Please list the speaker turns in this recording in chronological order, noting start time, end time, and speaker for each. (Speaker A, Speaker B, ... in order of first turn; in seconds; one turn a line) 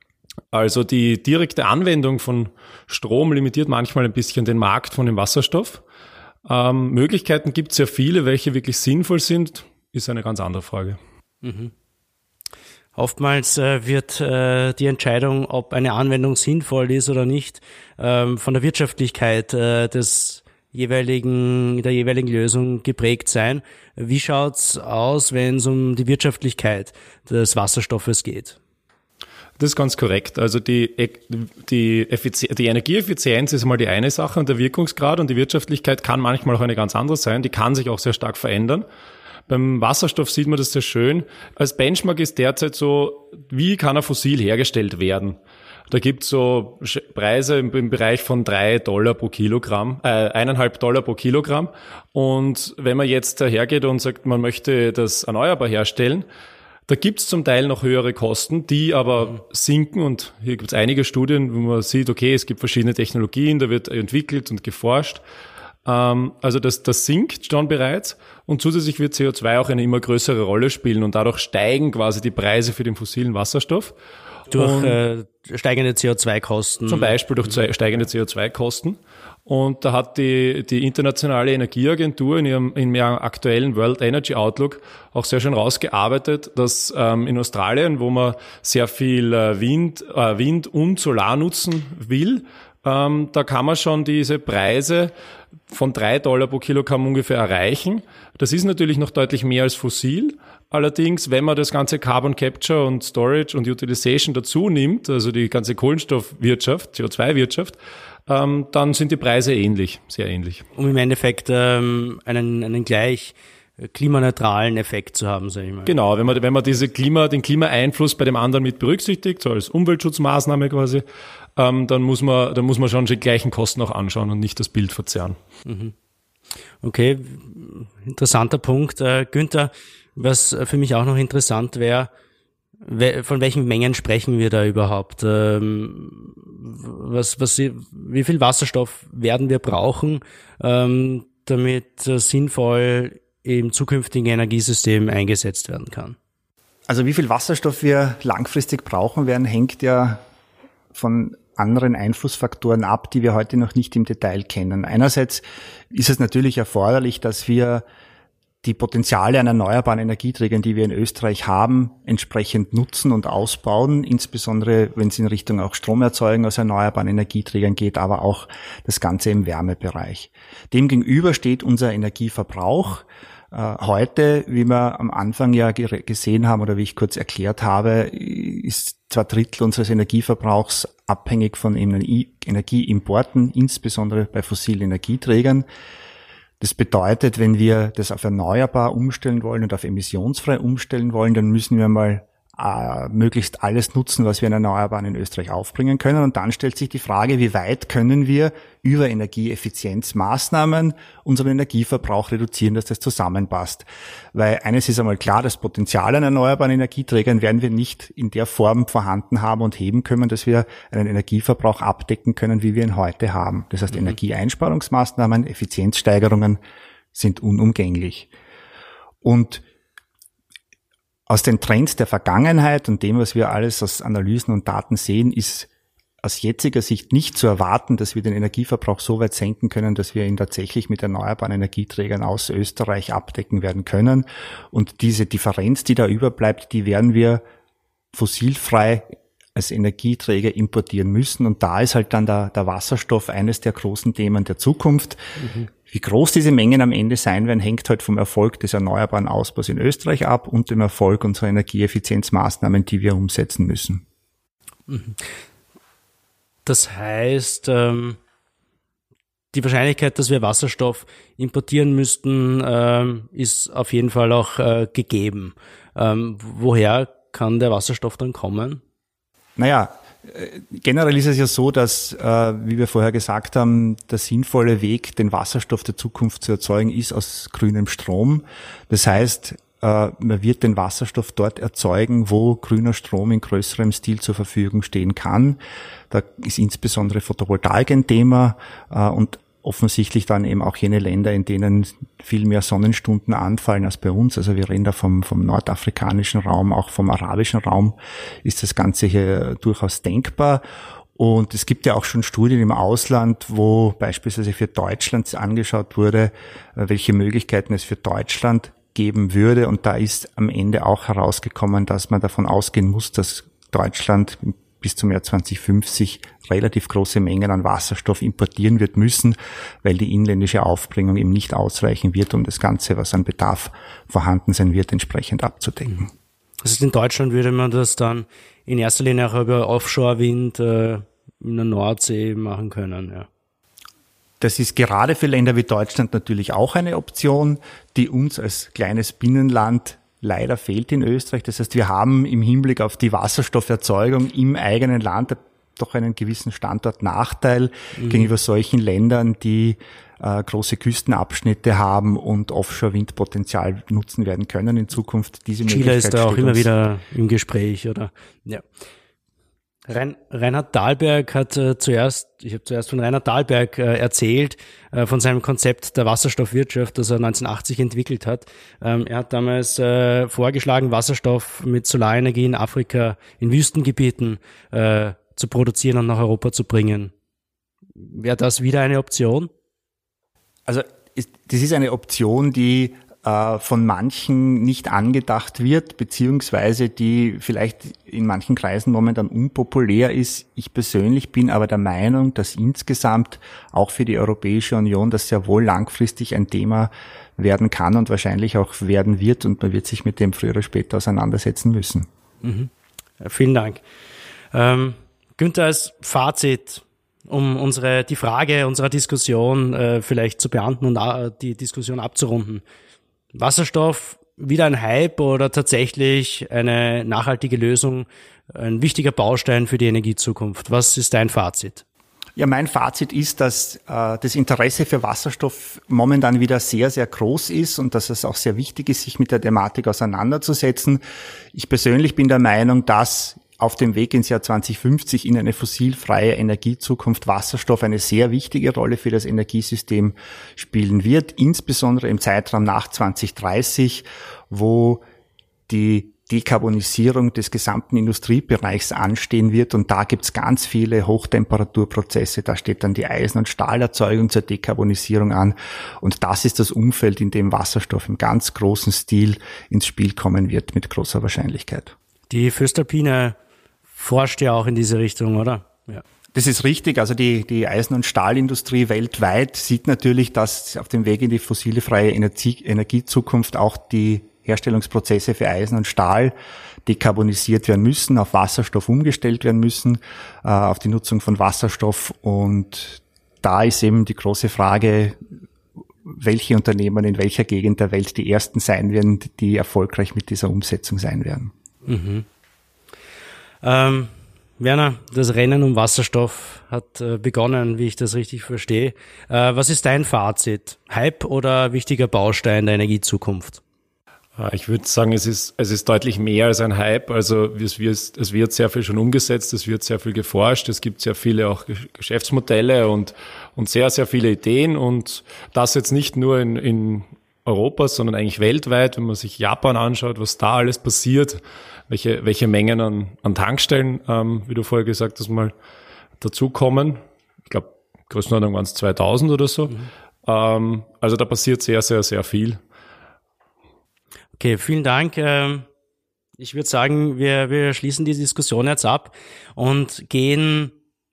Speaker A: 0.5-5.8
Speaker A: 6.5-11.0
Speaker B: 11.4-11.7
Speaker B: 13.0-28.6
Speaker A: 29.6-38.9
Speaker A: 39.5-45.4
Speaker A: 45.9-56.2
Speaker A: 56.9-65.2
Speaker A: 65.8-74.0
Speaker B: 74.5-77.2
Speaker A: 74.5-75.0
Speaker A: 76.9-95.1
Speaker A: 95.7-107.8
Speaker A: 108.3-110.6
Speaker B: 110.8-115.9
Speaker A: 115.8-121.0
Speaker A: 121.6-125.4
Speaker B: 125.7-125.9
Speaker B: 126.8-132.1
Speaker B: 132.8-146.2
Speaker C: 146.9-150.2
Speaker C: 150.9-157.8
Speaker C: 158.6-185.7
Speaker C: 186.6-216.6
Speaker C: 217.1-218.3
Speaker C: 219.2-219.6
Speaker C: 221.3-225.7
Speaker C: 226.2-237.4
Speaker C: 238.1-245.2
Speaker B: 245.4-245.7
Speaker C: 245.8-254.0
Speaker B: 254.9-255.2
Speaker B: 256.7-258.2
Speaker B: 259.5-268.8
Speaker C: 269.6-285.6
Speaker C: 286.1-300.6
Speaker C: 301.2-326.1
Speaker B: 326.6-333.3
Speaker C: 334.4-356.7
Speaker B: 348.0-348.3
Speaker B: 355.7-358.6
Speaker B: 359.9-377.1
Speaker B: 378.0-379.5
Speaker C: 380.7-402.1
Speaker B: 402.4-402.7
Speaker B: 403.2-403.8
Speaker B: 404.5-412.6
Speaker B: 413.3-421.8
Speaker C: 422.4-431.0
Speaker C: 431.5-445.0
Speaker C: 445.7-461.9
Speaker B: 462.3-463.4
Speaker B: 464.0-466.0
Speaker C: 466.3-476.3
Speaker C: 476.9-485.2
Speaker C: 486.1-491.5
Speaker B: 491.9-492.3
Speaker B: 493.6-503.6
Speaker A: 504.4-525.5
Speaker A: 526.2-532.6
Speaker B: 534.4-535.7
Speaker B: 536.4-540.8